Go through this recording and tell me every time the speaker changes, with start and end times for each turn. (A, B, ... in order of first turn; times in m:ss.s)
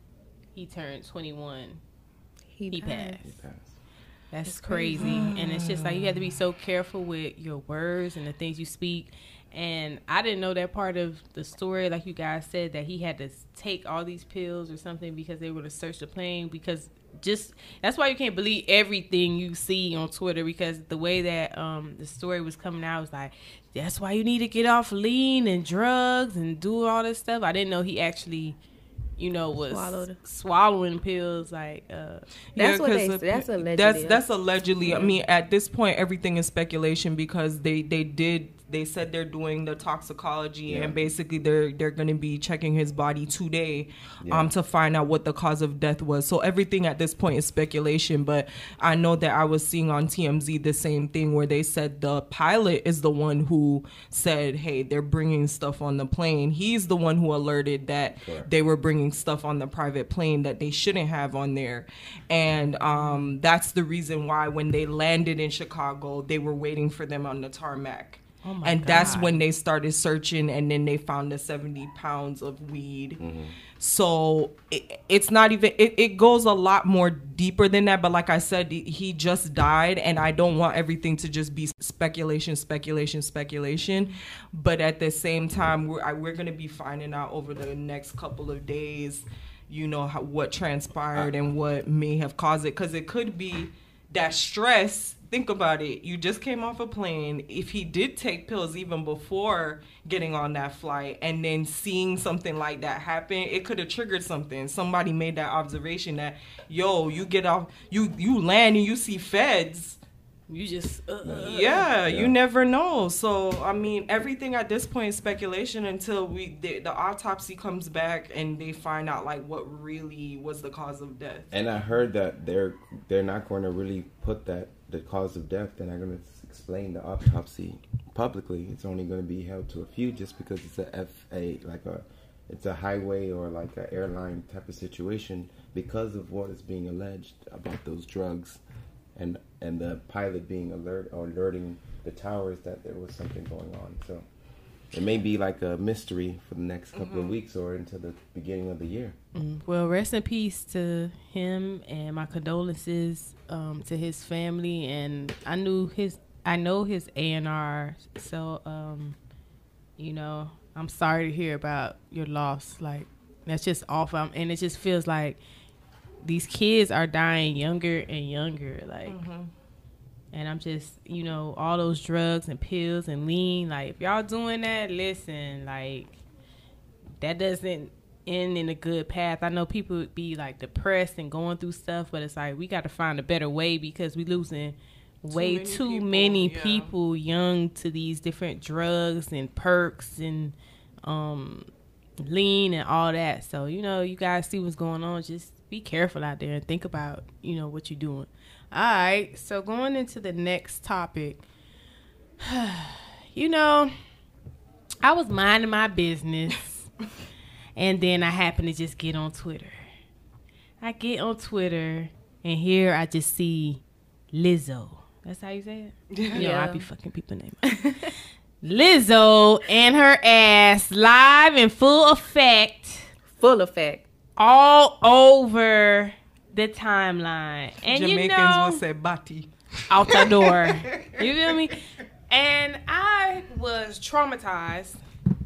0:00.5-0:01.8 A
0:02.5-0:03.2 B
0:02.7-0:03.3 A
0:03.2-0:03.7 C
0:04.3-0:28.6 A
0:04.5-0:05.3 B
0:05.0-0:06.3 D
0:29.2-0:32.2 A
0:29.7-0:30.2 B
0:32.6-1:13.2 D
0:32.6-0:34.3 B
0:34.8-0:35.2 B
0:40.7-0:41.0 C
0:44.2-0:44.5 C
0:58.2-0:58.5 C
1:02.9-1:03.3 A
1:08.4-1:09.4 A
1:13.2-1:13.6 C
1:13.8-1:50.0 D
1:50.5-1:51.9 A
1:51.2-1:52.3 C
1:51.4-2:01.5 D
2:01.5-2:18.6 C
2:19.2-2:24.2 C
2:24.9-2:29.1 C
2:26.9-2:27.3 D
2:29.3-2:39.2 A
2:40.0-2:45.4 A
2:46.2-2:49.2 A
2:49.1-2:49.5 D
2:50.3-2:56.1 A
2:57.2-3:11.7 A
3:05.3-3:06.9 D
3:12.2-3:21.4 A
3:22.4-3:23.9 A
3:25.0-3:26.9 A
3:27.8-3:29.8 A
3:30.8-3:37.9 A
3:36.1-3:36.4 D
3:36.3-3:36.9 B
3:38.6-3:43.1 A
3:43.3-3:44.0 B
3:44.4-3:48.8 A
3:47.8-3:49.5 D
3:49.9-3:55.0 A
3:50.1-3:51.1 D